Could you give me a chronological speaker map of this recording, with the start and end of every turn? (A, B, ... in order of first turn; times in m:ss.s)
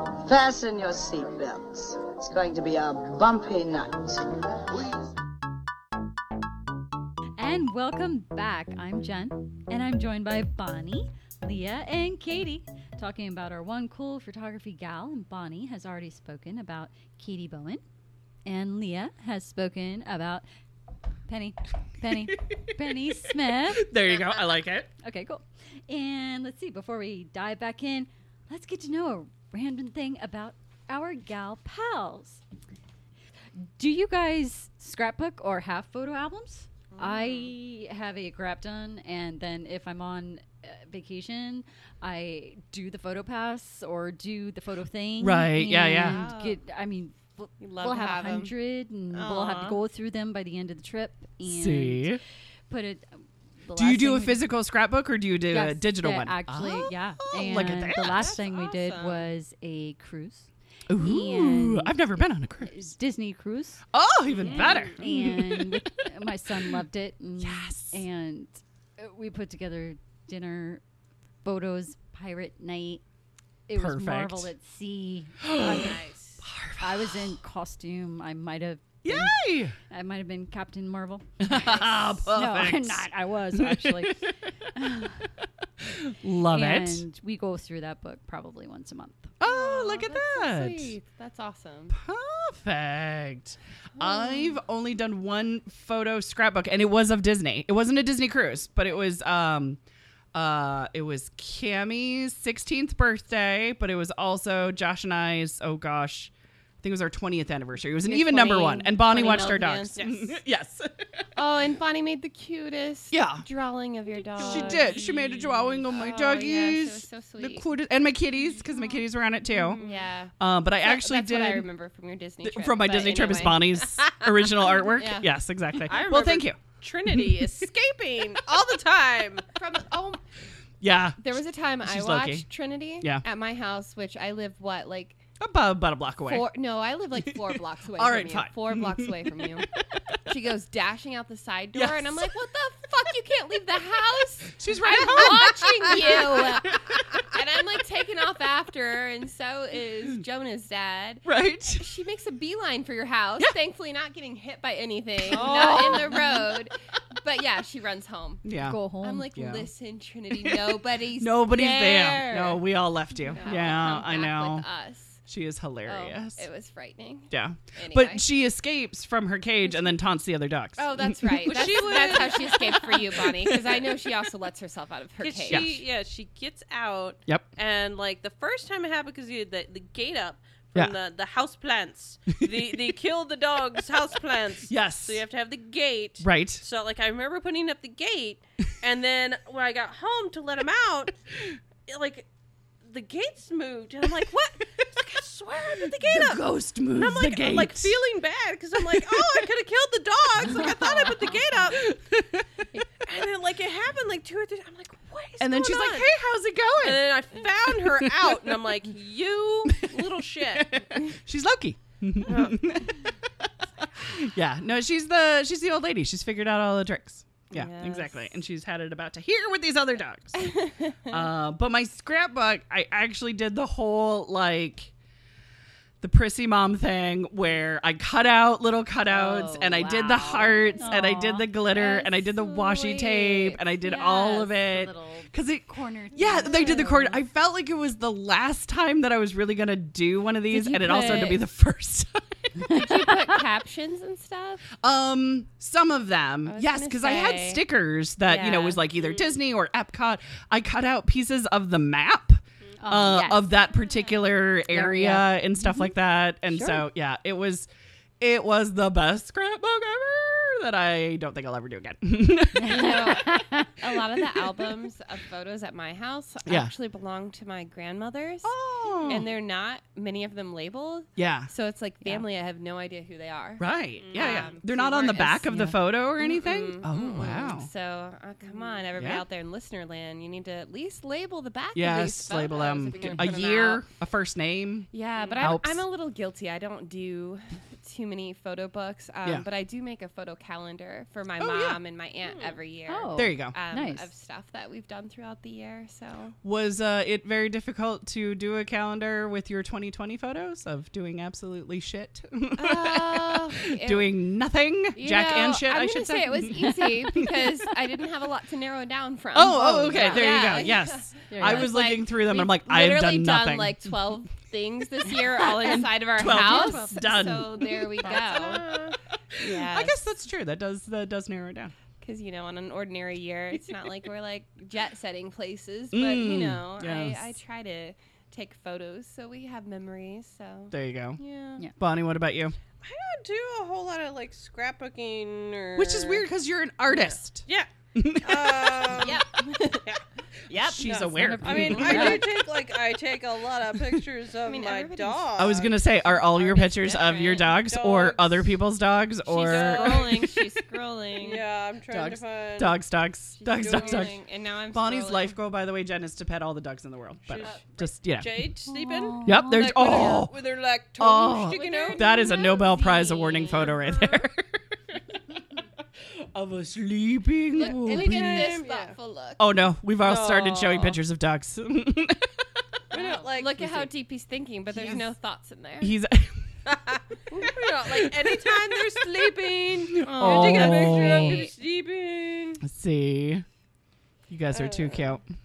0:00.2-0:05.1 A
0:07.4-0:17.8 B
0:18.4-0:20.4 B
0:21.2-0:23.9 B
0:23.0-0:24.9 C
0:24.1-0:24.4 D
0:25.0-0:32.4 B
0:33.6-0:52.2 B
0:36.9-0:37.5 D
0:45.2-0:46.3 C
0:45.9-0:46.6 D
0:47.6-0:48.5 D
0:49.1-0:49.8 D
0:51.4-0:52.2 C
0:52.7-0:54.4 B
0:53.8-0:58.4 C
0:55.5-1:03.8 B
0:57.9-0:59.3 D
1:00.9-1:02.9 C
1:03.9-1:05.9 C
1:04.3-1:05.0 D
1:04.5-1:10.8 B
1:07.4-1:08.0 C
1:11.4-1:13.0 B
1:13.7-1:16.0 B
1:13.7-1:14.5 C
1:15.4-1:17.4 C
1:15.6-1:16.4 D
1:16.8-1:25.3 B
1:19.0-1:19.8 C
1:21.4-1:24.3 C
1:25.8-1:27.0 C
1:26.5-1:29.3 B
1:29.4-1:30.9 C
1:29.4-1:32.0 D
1:31.9-1:39.8 C
1:34.0-1:34.6 D
1:40.3-1:51.2 C
1:48.0-1:50.4 D
1:51.3-1:55.2 D
1:53.1-1:53.4 C
1:54.4-1:59.8 C
1:55.8-1:57.7 D
1:59.5-2:05.4 D
2:00.4-2:01.7 C
2:02.4-2:07.7 C
2:05.8-2:09.4 E
2:09.5-2:10.2 D
2:10.8-2:12.4 C
2:11.2-2:15.2 D
2:15.4-2:16.5 C
2:16.2-2:38.4 D
2:17.3-2:19.5 C
2:21.7-2:22.3 C
2:24.6-2:27.2 C
2:31.2-2:31.8 C
2:35.2-2:36.6 C
2:35.3-2:36.3 E
2:38.4-2:38.8 C
2:38.5-2:39.3 B
2:39.0-2:42.6 D
2:39.3-2:39.7 C
2:40.3-2:44.6 C
2:43.2-2:45.2 D
2:43.4-2:44.0 E
2:45.3-2:46.4 C
2:45.8-2:48.2 D
2:47.3-2:52.4 C
2:50.8-2:55.8 D
2:51.4-2:53.6 E
2:55.2-3:11.2 E
2:55.5-2:55.8 C
3:02.4-3:02.9 C
3:04.6-3:05.2 C
3:06.2-3:06.6 C
3:11.8-3:12.3 E
3:12.8-3:21.9 E
3:15.8-3:18.0 C
3:18.7-3:19.5 C
3:21.7-3:22.6 C
3:22.9-3:26.1 E
3:25.4-3:27.1 C
3:26.8-3:31.0 E
3:27.6-3:28.7 C
3:29.7-3:29.9 C
3:30.5-3:44.9 C
3:32.2-3:32.6 E
3:37.5-3:38.3 D
3:40.3-3:41.2 D
3:46.0-4:03.2 C
3:49.0-3:57.2 B
4:00.5-4:01.4 D
4:02.7-4:04.7 D
4:04.8-4:17.7 C
4:06.4-4:07.6 D
4:08.2-4:08.9 D
4:12.8-4:13.4 B
4:14.7-4:15.9 B
4:16.5-4:16.8 B
4:18.2-4:23.2 C
4:22.5-4:23.7 B
4:22.6-4:28.5 D
4:26.4-4:26.7 C
4:28.4-4:29.3 C
4:29.0-4:35.5 D
4:31.2-4:31.5 C
4:33.6-4:37.7 C
4:34.0-4:34.5 E
4:35.4-4:35.8 B
4:36.2-4:43.8 D
4:39.0-4:39.2 C
4:41.7-4:45.8 C
4:44.9-4:56.3 D
4:51.4-4:51.8 C
4:52.2-4:52.6 E
4:52.9-4:54.1 B
4:53.1-4:53.5 C
4:56.4-5:07.3 C
5:02.6-5:04.2 D
5:04.9-5:20.0 D
5:06.6-5:07.4 B
5:09.3-5:13.9 C
5:11.3-5:11.7 B
5:15.4-5:18.2 B
5:15.4-5:18.3 C
5:18.1-5:19.0 E
5:19.3-5:21.7 C
5:22.0-5:31.6 D
5:25.9-5:27.3 C
5:30.7-5:31.2 C
5:31.8-5:32.6 C
5:32.8-5:36.2 E
5:35.8-5:39.2 C
5:36.9-5:45.7 E
5:38.9-5:39.8 D
5:40.5-5:40.9 D
5:40.5-5:42.2 C
5:40.8-5:42.4 B
5:41.5-5:42.2 D
5:44.4-5:47.6 D
5:45.4-5:50.4 C
5:47.5-5:48.5 E
5:49.3-5:51.4 D
5:49.4-5:50.4 E
5:51.2-5:52.8 E
5:51.9-5:54.2 C
5:53.4-5:55.4 D
5:53.6-5:54.1 E
5:54.7-5:58.4 C
5:57.2-6:02.1 E
5:58.6-6:00.0 B
5:59.2-6:00.4 C
6:01.0-6:04.4 C
6:01.4-6:03.8 D
6:03.5-6:04.2 E
6:06.2-6:08.6 C
6:07.6-6:09.4 D
6:07.6-6:08.9 E
6:09.4-6:12.8 C
6:10.0-6:11.0 E
6:12.9-6:13.9 E
6:12.9-6:15.9 D
6:15.8-6:16.6 C
6:16.7-6:22.6 E
6:17.8-6:18.5 C
6:19.9-6:21.4 C
6:20.0-6:21.6 D
6:22.6-6:23.4 C
6:24.3-6:25.2 C
6:24.5-6:25.1 E